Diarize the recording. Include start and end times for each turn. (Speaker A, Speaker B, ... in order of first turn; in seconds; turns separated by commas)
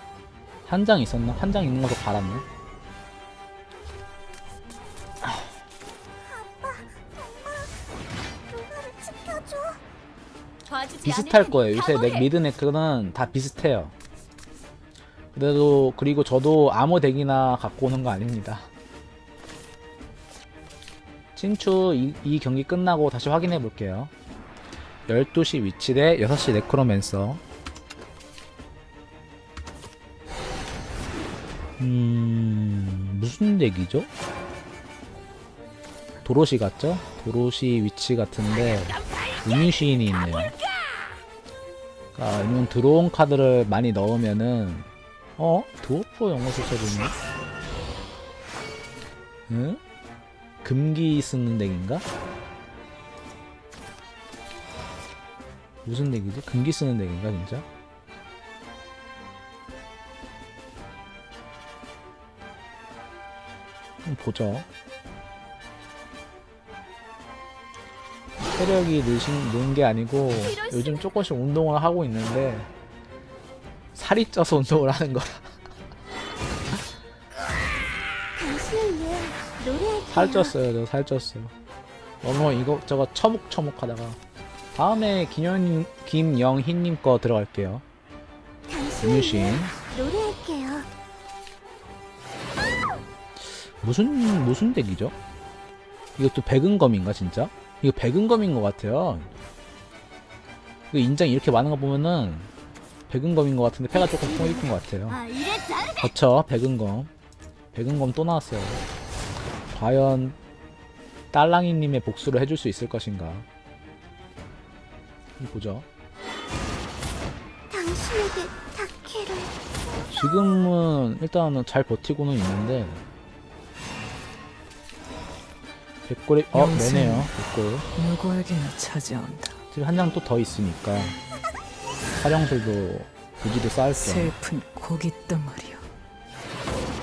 Speaker A: 0.7-2.5, Speaker B: 6.3-7.7, Speaker B: 8.5-9.8, Speaker B: 10.7-12.3, Speaker A: 11.0-13.9, Speaker A: 15.3-18.7, Speaker A: 21.4-24.1, Speaker A: 25.1-27.4, Speaker A: 31.8-34.1, Speaker A: 36.2-40.6, Speaker A: 42.1-47.2, Speaker A: 49.5-49.8, Speaker A: 50.6-52.1, Speaker A: 55.9-57.7, Speaker A: 64.0-64.7, Speaker A: 68.5-72.7, Speaker B: 70.3-71.1, Speaker A: 73.9-75.5, Speaker B: 78.4-80.5, Speaker A: 80.1-81.5, Speaker A: 82.2-84.2, Speaker A: 84.8-87.8, Speaker B: 88.7-90.9, Speaker A: 89.0-89.7, Speaker A: 93.4-95.2, Speaker A: 96.2-99.3, Speaker A: 100.9-102.5, Speaker A: 103.1-105.2, Speaker B: 103.9-106.1, Speaker A: 106.0-107.1, Speaker A: 107.7-108.8, Speaker A: 109.7-110.4, Speaker A: 111.3-113.5, Speaker A: 115.4-115.9, Speaker B: 117.7-120.1, Speaker A: 120.1-123.0, Speaker A: 126.1-127.9, Speaker C: 126.5-127.3, Speaker C: 128.0-129.6, Speaker A: 129.7-131.2, Speaker A: 132.2-134.3, Speaker C: 133.9-135.8